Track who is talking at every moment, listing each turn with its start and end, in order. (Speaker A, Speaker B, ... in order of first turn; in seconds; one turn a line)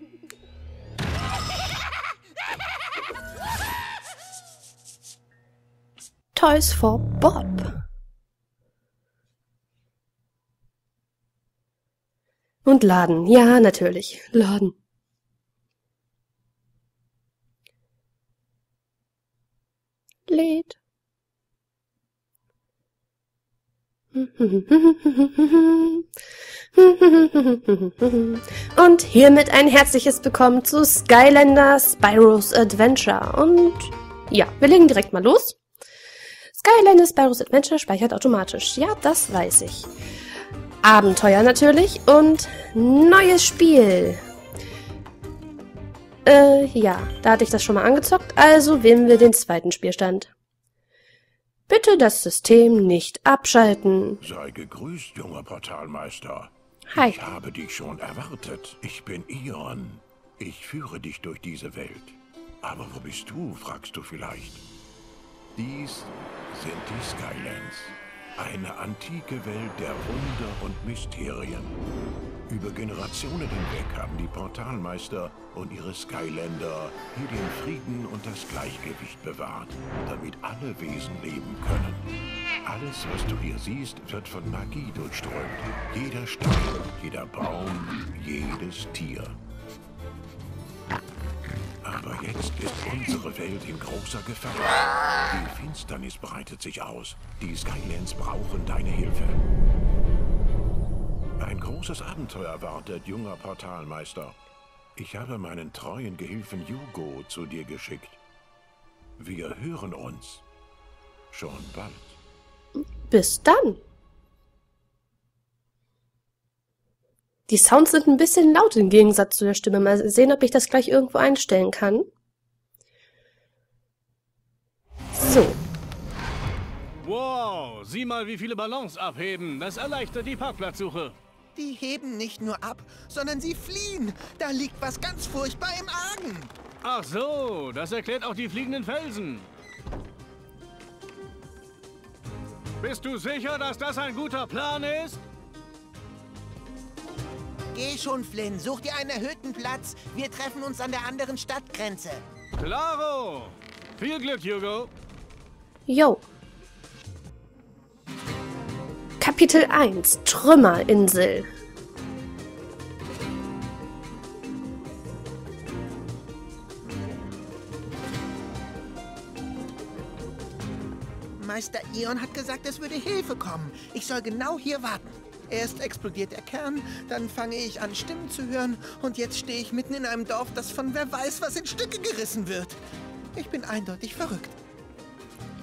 Speaker A: 6.3-7.7
Speaker A: 12.7-14.7
Speaker A: 20.3-20.8
Speaker A: 24.1-26.1
Speaker A: 26.8-35.6
Speaker A: 36.5-39.9
Speaker A: 40.8-44.2
Speaker A: 46.2-50.3
Speaker A: 51.7-54.2
Speaker B: 54.2-64.6
Speaker A: 56.9-57.2
Speaker B: 65.6-71.8
Speaker B: 72.5-82.1
Speaker B: 82.7-89.4
Speaker B: 91.8-99.4
Speaker B: 101.4-104.4
Speaker B: 105.0-108.2
Speaker B: 109.2-110.5
Speaker B: 111.3-112.2
Speaker A: 113.1-113.8
Speaker A: 117.5-122.1
Speaker A: 125.1-125.6
Speaker C: 127.0-131.2
Speaker D: 131.6-136.5
Speaker C: 136.8-139.5
Speaker C: 142.8-145.2
Speaker D: 147.7-152.2
Speaker C: 152.6-154.9
Speaker A: 155.9-156.2
Speaker A: 159.2-161.5
Speaker D: 171.4-182.8
Speaker D: 183.3-184.6